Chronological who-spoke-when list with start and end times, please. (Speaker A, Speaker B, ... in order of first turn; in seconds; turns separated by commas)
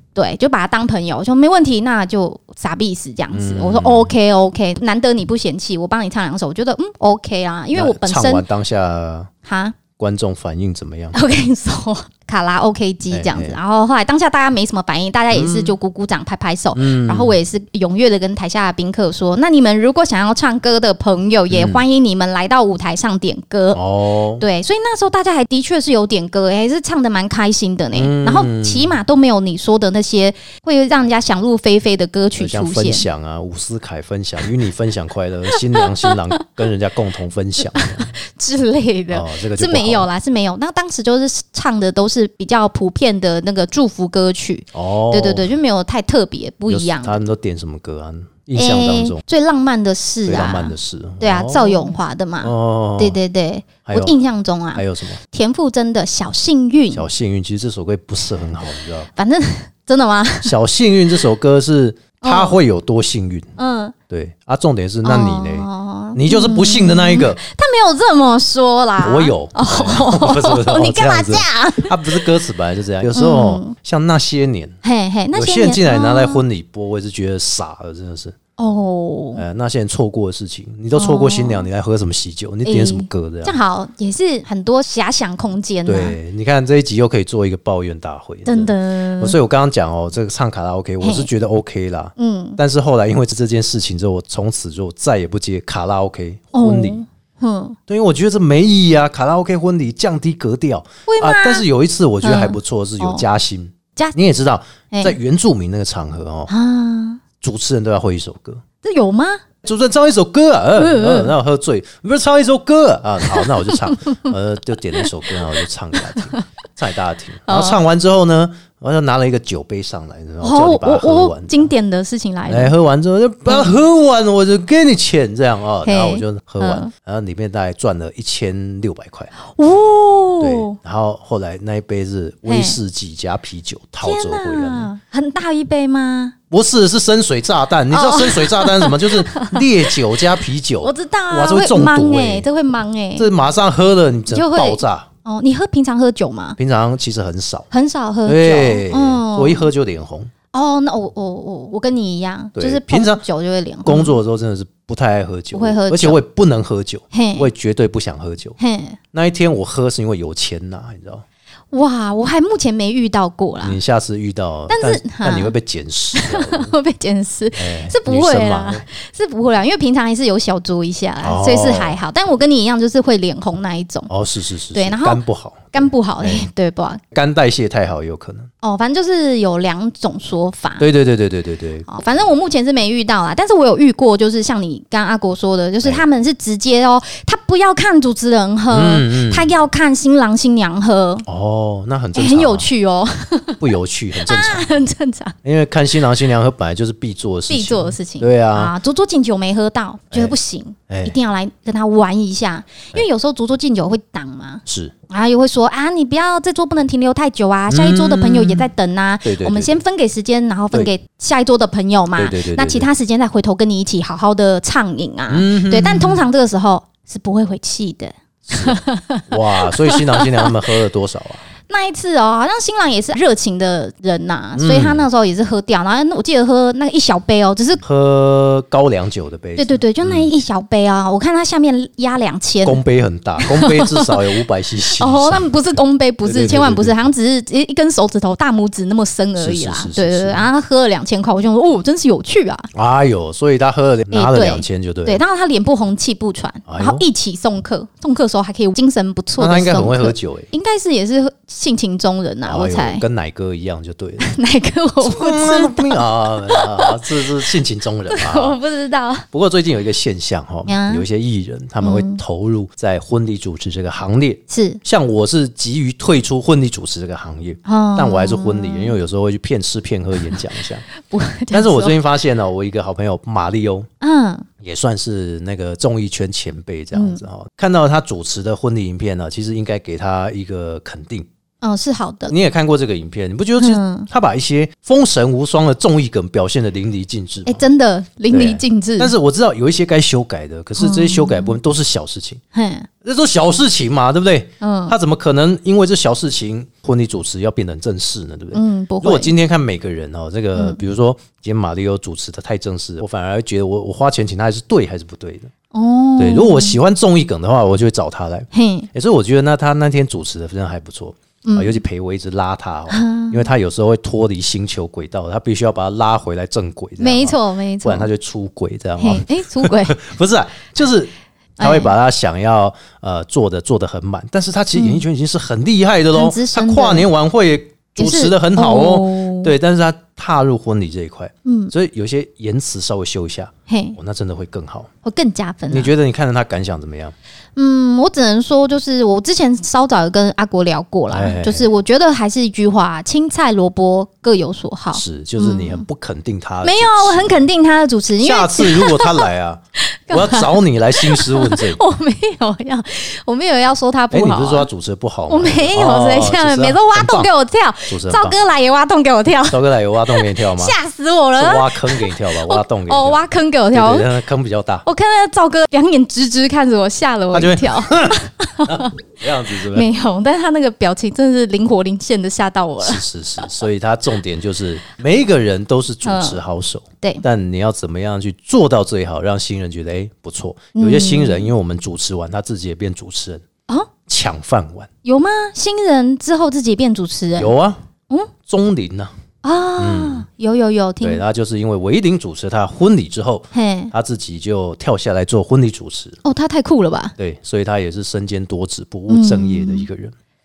Speaker A: 0.1-8.4, Speaker B: 3.3-4.1, Speaker B: 7.7-9.3, Speaker A: 9.4-9.8, Speaker B: 9.9-11.2, Speaker A: 11.1-23.8, Speaker B: 13.1-13.6, Speaker B: 15.3-15.8, Speaker B: 16.7-17.4, Speaker B: 21.5-21.8, Speaker B: 23.7-24.4, Speaker A: 24.4-33.0, Speaker B: 27.9-29.0, Speaker B: 32.4-38.1, Speaker A: 35.5-36.2, Speaker A: 37.6-47.3, Speaker B: 39.1-40.1, Speaker B: 44.7-45.5, Speaker B: 46.7-49.2, Speaker A: 48.5-57.0, Speaker B: 50.2-53.2, Speaker B: 53.9-54.2, Speaker B: 54.7-55.2, Speaker B: 56.9-59.1, Speaker A: 59.1-60.5, Speaker B: 60.4-63.5, Speaker A: 62.2-62.6, Speaker A: 63.6-63.9, Speaker B: 64.1-67.4, Speaker A: 65.0-72.2, Speaker B: 69.0-74.8, Speaker A: 73.1-73.7, Speaker A: 74.8-76.4, Speaker B: 75.3-78.3, Speaker A: 78.6-79.4, Speaker B: 79.3-83.6, Speaker A: 80.9-81.7, Speaker A: 82.6-86.2, Speaker B: 85.8-97.0, Speaker A: 88.5-89.3, Speaker A: 91.0-91.3, Speaker A: 92.2-92.6, Speaker A: 96.5-97.8, Speaker B: 97.9-106.5, Speaker A: 101.1-101.7, Speaker A: 102.2-103.2, Speaker A: 106.5-107.2, Speaker B: 107.4-108.6, Speaker A: 108.8-109.4, Speaker B: 109.6-121.7, Speaker A: 110.8-111.3, Speaker A: 113.2-114.3, Speaker A: 115.0-115.4, Speaker A: 115.9-116.4, Speaker A: 117.5-117.8, Speaker A: 120.4-122.7, Speaker B: 122.5-129.3, Speaker A: 123.5-123.7, Speaker A: 125.8-126.9, Speaker A: 129.5-130.8, Speaker B: 130.4-134.9, Speaker A: 132.4-132.8, Speaker A: 134.0-136.3, Speaker B: 136.5-142.5, Speaker A: 137.9-140.2, Speaker A: 140.8-143.3, Speaker B: 143.2-145.1, Speaker A: 144.3-146.6, Speaker B: 146.6-147.7, Speaker A: 147.7-149.7, Speaker B: 148.2-150.3, Speaker A: 150.5-154.2, Speaker B: 152.5-153.2, Speaker B: 153.8-158.6, Speaker A: 155.5-156.2, Speaker A: 157.1-157.5, Speaker A: 158.6-159.0, Speaker B: 159.1-161.2, Speaker A: 161.7-163.8, Speaker B: 163.6-166.7, Speaker A: 164.7-165.5, Speaker A: 166.1-174.1, Speaker B: 167.6-168.8, Speaker B: 171.2-172.0, Speaker B: 174.1-176.4, Speaker A: 174.7-175.2, Speaker A: 175.7-177.0, Speaker B: 177.1-178.5, Speaker A: 178.6-180.9, Speaker B: 180.8-181.9, Speaker A: 181.9-191.2, Speaker B: 188.7-189.5, Speaker B: 191.2-192.7, Speaker A: 192.1-193.6, Speaker B: 193.6-194.7, Speaker A: 194.2-195.3, Speaker B: 195.4-198.7, Speaker A: 197.5-220.6, Speaker B: 200.9-201.2, Speaker B: 204.7-204.9, Speaker B: 207.7-208.7, Speaker B: 209.2-209.8, Speaker B: 212.2-212.9, Speaker B: 215.3-216.2, Speaker B: 218.5-221.4, Speaker A: 221.7-227.8, Speaker B: 224.5-225.0, Speaker B: 227.8-230.3, Speaker A: 229.6-232.8, Speaker B: 232.6-235.5, Speaker A: 233.4-234.2, Speaker A: 234.9-242.7, Speaker B: 236.2-237.1, Speaker B: 239.4-240.5, Speaker B: 242.7-245.2, Speaker A: 244.1-253.0, Speaker B: 246.7-247.0, Speaker B: 249.4-250.5, Speaker B: 252.4-254.2, Speaker A: 254.2-257.0, Speaker B: 255.0-258.6, Speaker A: 258.1-259.2, Speaker B: 259.3-270.8, Speaker A: 260.6-261.0, Speaker A: 261.8-262.2, Speaker A: 264.5-264.8, Speaker A: 267.6-268.9, Speaker A: 271.0-272.0, Speaker B: 271.5-273.9, Speaker A: 274.0-274.5, Speaker B: 274.6-281.3, Speaker A: 276.9-277.2, Speaker A: 281.6-282.3, Speaker B: 282.3-287.6, Speaker A: 283.6-284.1, Speaker A: 287.4-289.1, Speaker B: 288.3-292.4, Speaker A: 290.8-291.6, Speaker A: 292.5-292.9, Speaker B: 293.0-305.5, Speaker A: 294.6-294.9, Speaker A: 298.5-299.3, Speaker A: 300.5-300.8, Speaker A: 305.7-306.8, Speaker B: 306.2-334.9, Speaker A: 308.5-308.9, Speaker A: 311.4-311.8, Speaker A: 312.9-313.5, Speaker A: 317.0-318.1, Speaker A: 319.0-320.0, Speaker A: 321.6-321.9, Speaker A: 324.7-325.0, Speaker A: 326.1-327.1, Speaker A: 328.0-329.5, Speaker A: 331.4-331.7, Speaker A: 333.7-334.0, Speaker A: 335.0-335.9, Speaker B: 335.7-337.1, Speaker A: 337.6-345.8, Speaker B: 341.1-341.7, Speaker B: 344.9-347.4, Speaker A: 346.6-349.2, Speaker B: 348.2-351.8, Speaker A: 350.1-354.7, Speaker B: 354.1-357.3, Speaker A: 355.3-364.1, Speaker B: 357.9-358.4, Speaker B: 359.5-360.8, Speaker B: 361.4-363.2, Speaker B: 363.7-364.8, Speaker A: 364.8-368.9, Speaker B: 367.3-369.9, Speaker A: 369.6-373.4, Speaker B: 372.8-383.4, Speaker A: 376.0-376.4, Speaker A: 380.8-381.5, Speaker B: 384.1-384.9, Speaker A: 385.0-387.5, Speaker B: 387.4-387.8, Speaker B: 388.4-389.1, Speaker A: 389.4-391.2, Speaker B: 389.8-390.2, Speaker B: 391.0-396.2, Speaker A: 393.5-393.9, Speaker A: 396.2-397.1, Speaker B: 397.2-400.1, Speaker A: 399.1-399.9